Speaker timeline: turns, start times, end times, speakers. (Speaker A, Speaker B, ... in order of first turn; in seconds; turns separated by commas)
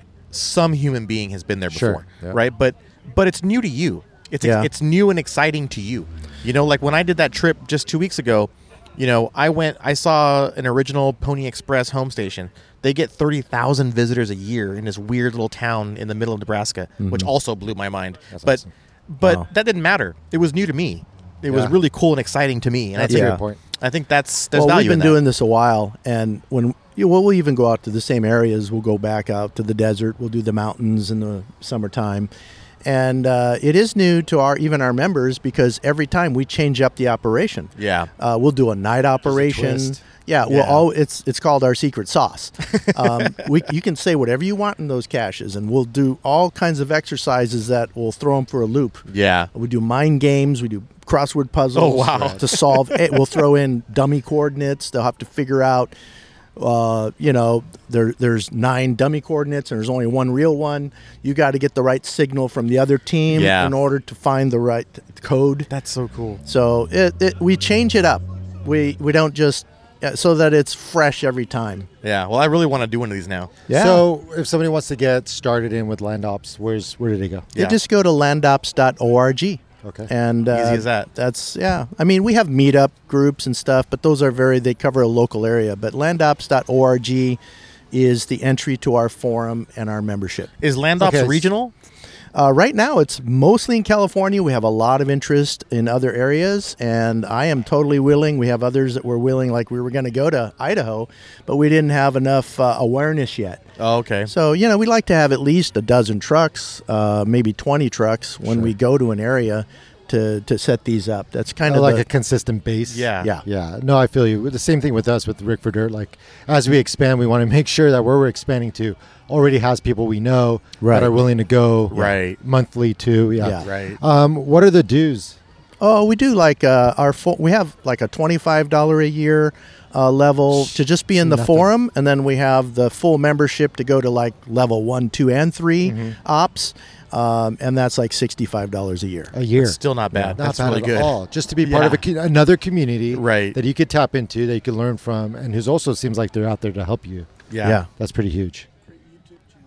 Speaker A: 0.3-25.2, Speaker B: 1.7-2.4, Speaker C: 4.4-4.7, Speaker C: 17.0-17.3, Speaker B: 18.3-18.7, Speaker B: 21.5-21.7, Speaker B: 22.9-23.6, Speaker C: 23.1-23.4, Speaker C: 24.5-32.3, Speaker C: 32.8-55.9, Speaker A: 37.8-38.1, Speaker B: 39.2-40.0, Speaker A: 40.5-40.8, Speaker A: 42.6-43.3, Speaker A: 49.1-49.5, Speaker A: 51.7-53.0, Speaker B: 52.1-52.4, Speaker C: 56.5-65.7, Speaker A: 63.3-63.7, Speaker A: 65.7-66.4, Speaker C: 66.4-71.9, Speaker A: 72.0-73.5, Speaker C: 73.7-74.0, Speaker B: 73.7-77.5, Speaker C: 77.5-87.4, Speaker B: 79.8-80.1, Speaker A: 80.5-81.1, Speaker C: 87.9-90.5, Speaker A: 90.6-91.7, Speaker B: 91.0-91.5, Speaker C: 92.3-103.6, Speaker A: 103.8-104.3, Speaker C: 104.3-112.0, Speaker B: 111.7-125.4, Speaker A: 112.9-113.3, Speaker C: 120.8-121.1, Speaker A: 121.9-122.4, Speaker C: 123.4-123.7, Speaker A: 123.6-124.0, Speaker C: 125.8-139.3, Speaker B: 131.2-131.7, Speaker B: 135.8-136.2, Speaker B: 139.3-148.7, Speaker A: 139.6-142.0, Speaker A: 143.1-143.6, Speaker A: 147.5-147.8